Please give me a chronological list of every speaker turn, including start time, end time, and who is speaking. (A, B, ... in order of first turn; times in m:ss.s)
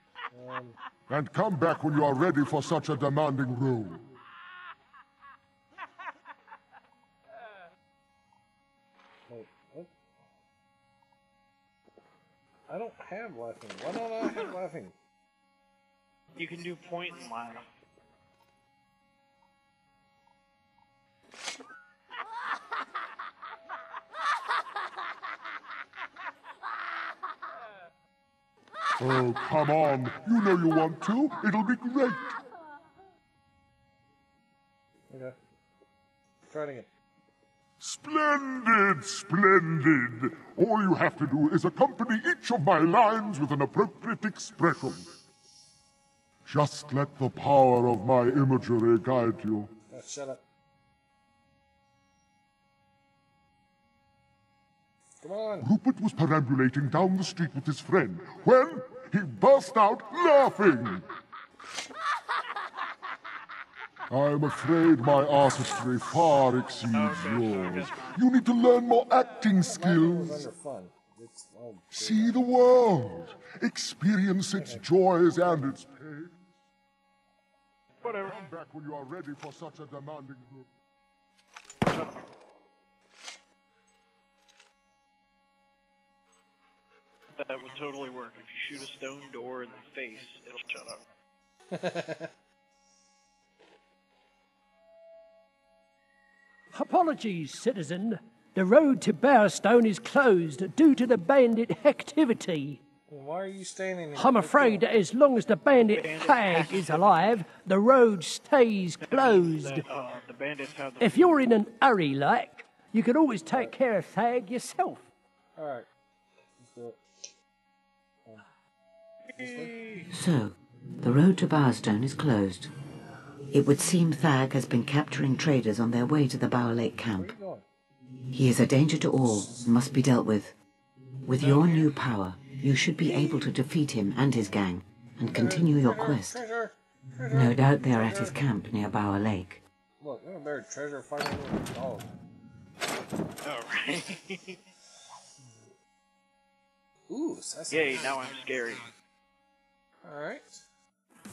0:00.3-0:00.8 A
0:01.1-0:04.0 B
0:09.3-0:09.9 A
0:12.7-0:14.9 A
0:16.4-0:17.6 C
0:29.0-0:32.3 B
0:35.1-0:35.3 A
0:36.5-0:36.9 A
0:37.8-0:45.1 B
0:46.4-0:49.7 B
0:49.9-0:50.4 A
0:55.2-0:55.7 A
0:55.6-1:01.0 B
1:04.1-1:10.5 B
1:06.9-1:08.2 C
1:09.6-1:12.4 A
1:11.9-1:16.5 B
1:14.6-1:15.8 A
1:18.0-1:18.4 C
1:18.2-1:20.7 B
1:21.8-1:22.2 C
1:27.4-1:31.0 C
1:31.7-1:32.3 A
1:36.7-1:42.8 D
1:43.1-1:44.8 A
1:44.1-1:49.8 D
1:45.9-1:47.1 C
1:49.0-1:51.3 C
1:51.0-1:55.1 D
1:55.6-1:55.9 A
1:56.6-1:57.0 A
1:59.4-1:59.7 A
1:59.4-2:00.1 C
2:00.1-2:02.7 E
2:03.5-2:07.3 E
2:07.1-2:07.6 A
2:08.3-2:10.5 E
2:11.2-2:16.4 E
2:11.4-2:11.8 A
2:13.0-2:13.5 A
2:15.3-2:18.4 A
2:17.3-2:19.6 E
2:20.0-2:22.1 A
2:23.4-2:24.6 C
2:27.1-2:28.1 A
2:27.7-2:28.9 C
2:30.0-2:30.6 A